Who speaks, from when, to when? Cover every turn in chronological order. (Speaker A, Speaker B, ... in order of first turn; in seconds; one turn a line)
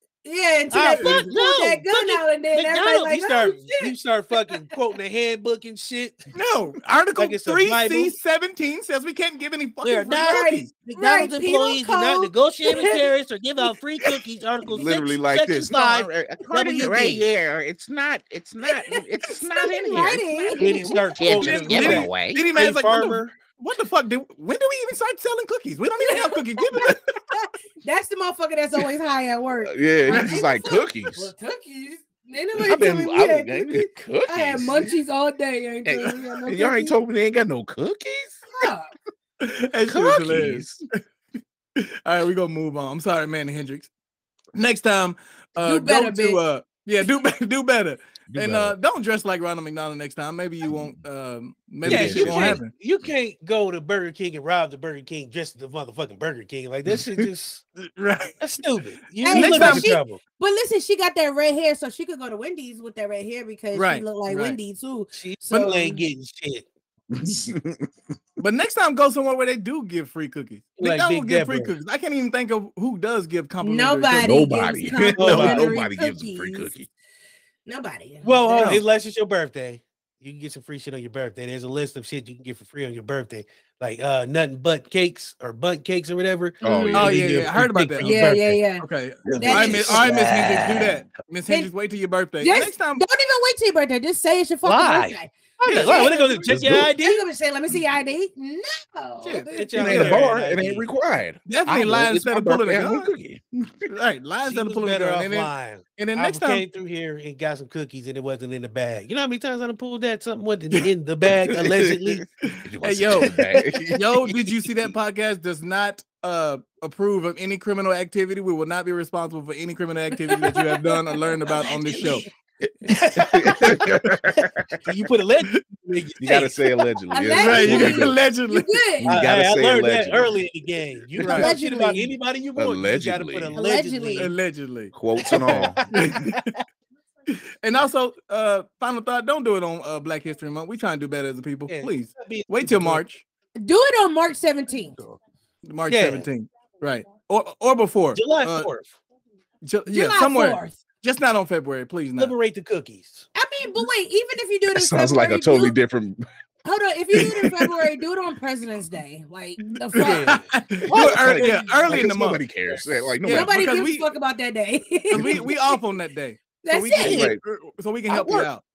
Speaker A: 0.2-3.9
Speaker B: 0.7-6.3
Speaker C: 1.0-1.2
Speaker C: 6.3-10.7
Speaker B: 7.2-8.2
Speaker B: 9.8-17.2
Speaker A: 10.1-13.0
Speaker D: 14.6-22.5
Speaker A: 18.6-21.0
Speaker B: 20.6-23.3
Speaker C: 21.3-27.0
Speaker A: 26.0-36.9
Speaker D: 29.6-31.3
Speaker D: 32.6-34.9
Speaker D: 35.8-38.4
Speaker A: 38.5-38.9
Speaker C: 39.4-40.7
Speaker D: 39.9-40.8
Speaker C: 41.8-43.9
Speaker C: 44.5-52.7
Speaker A: 45.6-46.4
Speaker D: 48.3-48.8
Speaker D: 50.7-50.9
Speaker D: 51.8-52.6
Speaker B: 51.8-57.6
Speaker C: 57.9-58.4
Speaker B: 58.4-60.2
Speaker A: 59.2-66.0
Speaker C: 59.3-59.9
Speaker C: 63.7-64.6
Speaker B: 65.1-66.7
Speaker D: 67.1-67.9
Speaker C: 68.4-74.4
Speaker B: 70.8-71.7
Speaker A: 73.6-76.7
Speaker D: 74.2-76.9
Speaker B: 75.2-75.7
Speaker A: 77.7-78.8
Speaker B: 78.2-88.6
Speaker C: 78.5-78.8
Speaker A: 86.6-87.1
Speaker D: 86.6-87.4
Speaker C: 86.9-88.2
Speaker A: 88.0-88.8
Speaker C: 88.8-93.0
Speaker D: 89.2-90.0
Speaker B: 89.3-90.9
Speaker A: 89.4-90.2
Speaker A: 92.4-100.1
Speaker B: 94.6-97.2
Speaker D: 96.5-96.9
Speaker C: 99.2-100.2
Speaker B: 99.5-100.8
Speaker D: 99.8-103.9
Speaker C: 101.5-103.1
Speaker C: 103.9-106.6
Speaker B: 104.4-112.2
Speaker D: 111.3-114.9
Speaker C: 112.5-113.4
Speaker C: 113.9-122.2
Speaker A: 120.3-120.9
Speaker A: 121.5-122.3
Speaker B: 122.9-123.5
Speaker D: 123.2-124.7
Speaker B: 124.8-126.6
Speaker D: 126.2-128.2
Speaker A: 127.1-129.2
Speaker C: 127.4-128.8
Speaker D: 129.0-130.4
Speaker B: 129.1-134.3
Speaker A: 131.2-132.1
Speaker C: 131.2-131.5
Speaker D: 132.6-133.6
Speaker A: 133.5-134.3
Speaker C: 134.2-134.9
Speaker D: 134.9-135.9
Speaker B: 135.2-136.2
Speaker C: 135.9-136.5
Speaker C: 137.3-143.2
Speaker B: 141.7-143.0
Speaker A: 143.6-144.9
Speaker C: 145.7-148.7
Speaker B: 145.9-146.2
Speaker B: 148.1-148.9
Speaker C: 149.6-152.3
Speaker A: 149.9-150.8
Speaker B: 152.2-153.3
Speaker A: 153.3-155.8
Speaker D: 154.7-156.2
Speaker A: 156.6-160.3
Speaker C: 159.9-162.4
Speaker B: 159.9-162.1
Speaker D: 160.9-163.6
Speaker C: 163.2-164.1
Speaker A: 163.3-165.5
Speaker D: 165.1-165.5
Speaker C: 165.1-168.6
Speaker A: 166.6-167.3
Speaker D: 167.0-167.4
Speaker D: 168.1-168.5